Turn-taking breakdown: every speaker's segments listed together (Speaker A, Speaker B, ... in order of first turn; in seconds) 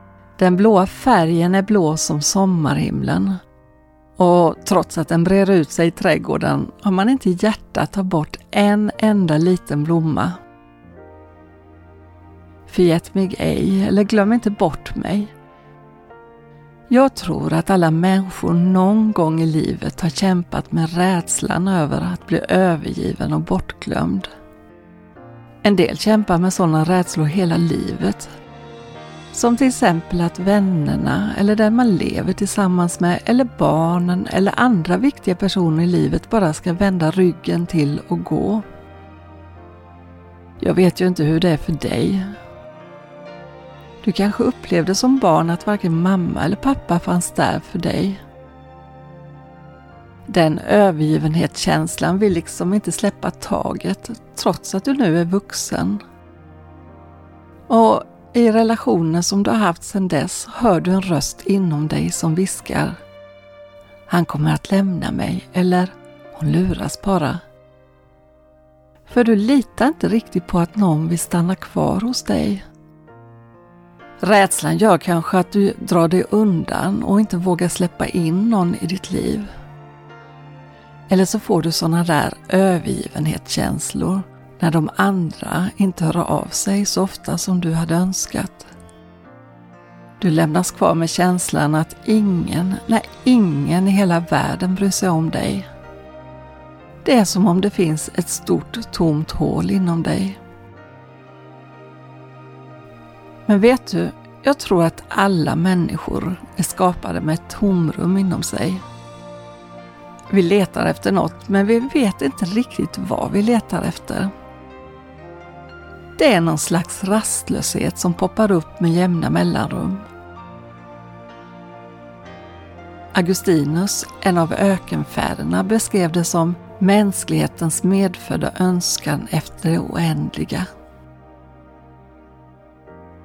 Speaker A: 0.4-3.4, 4.2-10.4, 12.7-15.3, 16.9-24.3, 25.6-28.3, 29.3-38.6, 40.6-42.4, 44.0-48.2, 50.3-56.0, 57.7-63.0, 64.1-67.4, 69.1-72.6, 74.2-79.5, 81.1-88.7, 90.2-95.7, 97.0-100.4, 103.5-108.8, 110.3-114.3, 116.2-120.1, 123.1-130.7